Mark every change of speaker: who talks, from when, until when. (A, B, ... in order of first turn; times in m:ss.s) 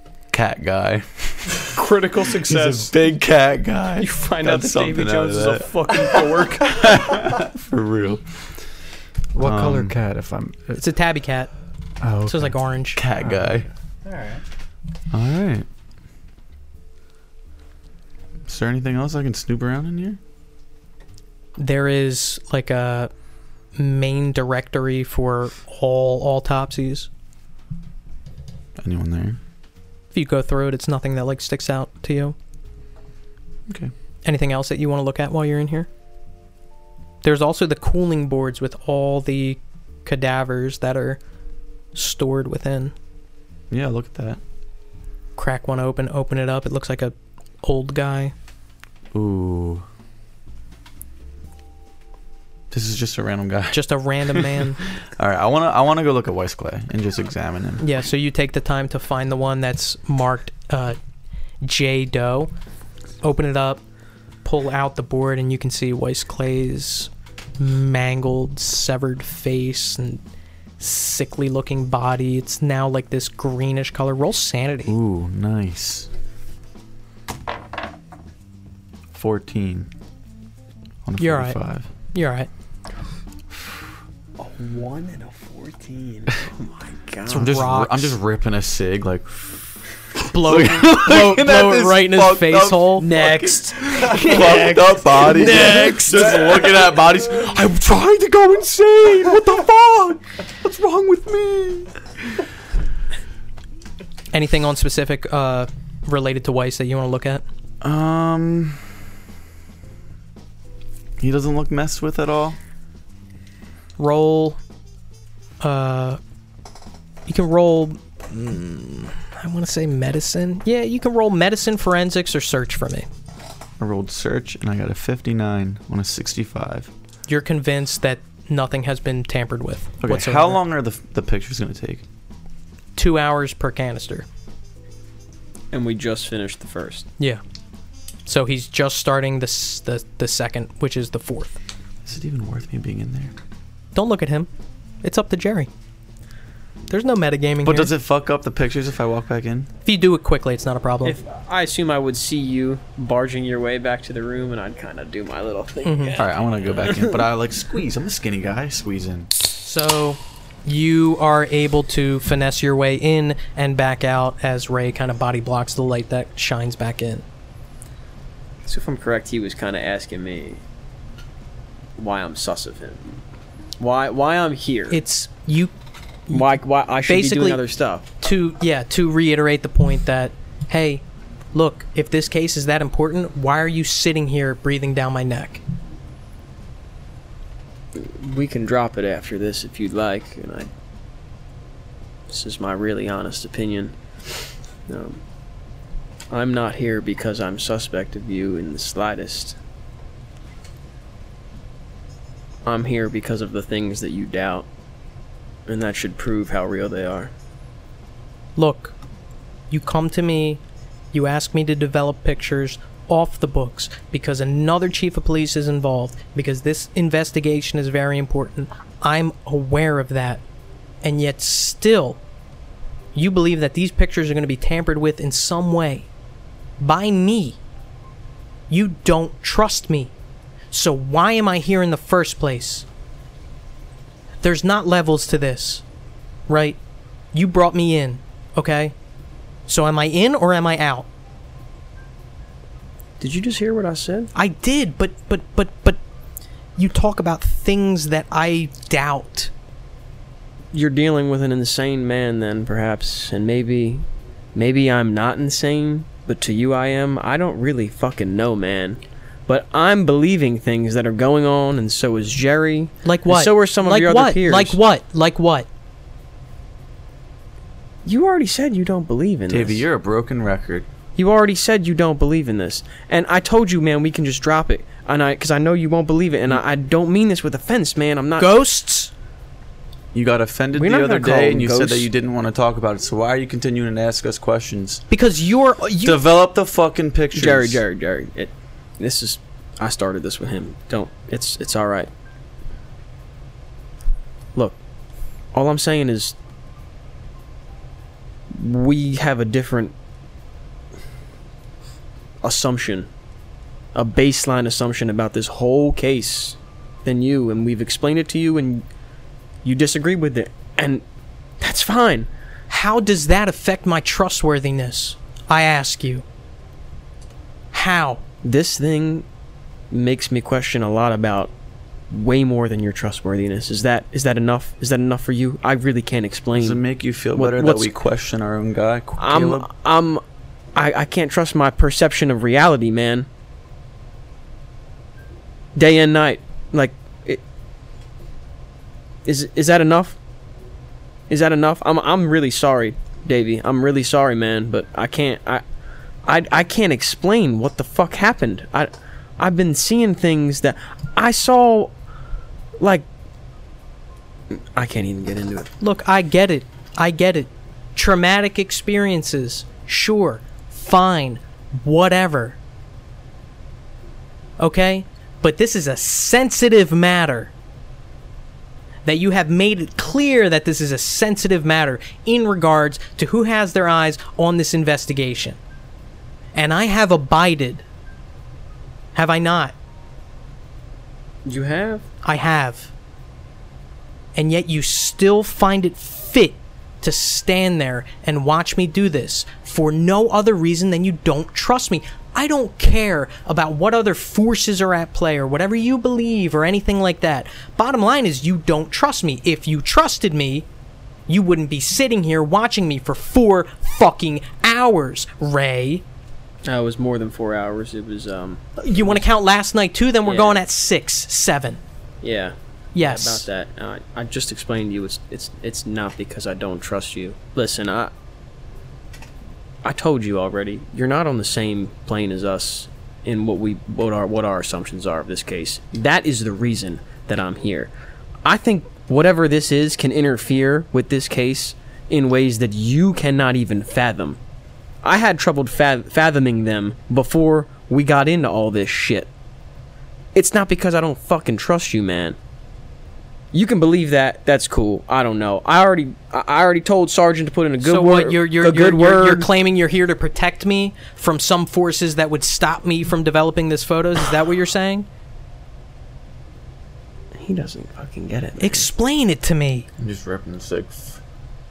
0:00.3-0:01.7 A
0:01.7-0:02.9 B
0:02.3-0:08.4 A
0:04.0-0:07.3 B
0:09.3-0:10.8 C
0:09.4-0:10.0 A
0:10.8-0:11.5 D
0:12.0-0:12.6 C
0:12.2-0:13.0 D
0:12.9-0:13.7 A
0:13.3-0:13.6 C
0:15.1-0:15.6 A
0:18.5-0:20.2 A
0:21.6-0:23.1 D
0:23.7-0:27.1 D
0:28.8-0:29.4 A
0:30.1-0:32.4 D
0:34.2-0:35.9 D
0:37.2-0:41.2 D
0:41.9-0:42.9 D
0:43.7-0:44.4 A
0:45.4-0:48.3 D
0:49.1-0:49.8 A
0:52.7-0:54.6 A
0:53.7-0:54.8 D
0:55.2-0:57.8 A
0:57.8-1:01.0 D
1:01.6-1:02.5 D
1:03.2-1:03.8 D
1:04.4-1:10.2 D
1:10.8-1:14.9 D
1:14.8-1:16.1 A
1:19.1-1:19.9 A
1:21.0-1:21.9 A
1:21.2-1:21.6 D
1:22.1-1:22.5 D
1:24.5-1:27.5 E
1:27.3-1:29.7 A
1:27.3-1:28.2 D
1:30.2-1:33.1 D
1:30.3-1:41.9 A
1:33.0-1:36.9 E
1:44.3-1:47.4 D
1:47.8-1:48.9 A
1:51.2-1:52.6 A
1:54.0-1:54.6 D
1:55.6-1:56.2 D
1:57.2-1:58.0 D
1:58.3-1:58.8 A
1:58.5-2:03.1 D
2:03.8-2:06.9 A
2:07.3-2:10.6 D
2:10.0-2:12.0 A
2:13.0-2:14.2 D
2:15.7-2:17.1 E
2:18.2-2:21.6 D
2:22.0-2:23.3 A
2:23.9-2:24.5 D
2:25.0-2:25.7 D
2:26.9-2:27.9 D
2:27.6-2:29.7 A
2:29.8-2:31.2 D
2:31.0-2:37.2 E
2:35.8-2:36.2 D
2:36.2-2:39.3 A
2:39.6-2:47.2 D
2:48.6-2:50.6 E
2:52.0-2:53.2 E
2:53.8-2:55.0 E
2:54.9-2:55.7 D
2:56.3-2:58.1 E
2:57.0-2:57.6 D
2:58.2-3:05.6 D
3:07.9-3:10.7 E
3:12.3-3:14.0 E
3:14.9-3:15.2 E
3:16.3-3:19.6 E
3:22.6-3:24.6 E
3:25.7-3:27.3 E
3:28.6-3:29.0 D
3:29.7-3:40.4 D
3:41.0-3:42.2 D
3:43.1-3:46.1 D
3:46.8-3:47.6 D
3:48.7-3:50.1 D
3:50.7-3:52.8 D
3:54.4-3:55.8 D
3:56.5-3:56.8 D
3:57.3-3:58.9 D
3:59.7-4:01.1 D
4:03.2-4:04.3 E
4:04.3-4:06.0 D
4:06.8-4:09.5 D
4:10.7-4:24.8 E
4:23.0-4:25.7 D
4:28.0-4:29.8 E
4:29.5-4:30.9 A
4:31.2-4:38.5 E
4:38.4-4:39.1 D
4:40.1-4:45.0 A
4:40.7-4:42.1 E
4:45.1-4:46.2 D
4:46.0-4:47.8 A
4:47.3-4:52.1 E
4:55.5-4:56.3 E
4:58.5-4:59.9 E
5:02.4-5:03.1 E
5:03.9-5:08.8 E
5:09.6-5:11.0 E
5:11.6-5:12.3 E
5:12.7-5:16.2 D
5:17.7-5:18.2 D
5:18.4-5:19.2 E
5:19.9-5:21.5 E
5:22.1-5:26.8 E
5:26.5-5:29.7 A
5:27.3-5:27.9 E
5:29.2-5:30.2 E
5:30.7-5:33.3 E
5:35.7-5:37.4 E
5:39.2-5:40.2 E
5:41.3-5:45.6 E
5:46.2-5:51.9 E
5:52.8-5:53.0 E
5:54.5-5:55.7 E
5:55.8-6:02.6 D
6:04.6-6:07.5 D
6:09.0-6:15.6 D
6:16.5-6:17.8 D
6:19.1-6:19.7 D
6:21.4-6:22.0 E
6:22.2-6:22.9 D
6:24.3-6:40.6 D
6:41.3-6:46.0 D
6:46.6-6:48.8 E
6:48.8-6:51.8 D
6:50.2-6:50.6 E
6:52.2-6:58.1 E
6:52.9-6:53.5 D
6:59.8-7:07.9 E
7:08.4-7:14.4 E
7:15.0-7:19.3 E
7:20.3-7:22.4 E
7:23.5-7:29.5 E
7:27.8-7:35.1 D
7:37.4-7:38.9 E
7:38.6-7:39.9 D
7:40.0-7:41.2 A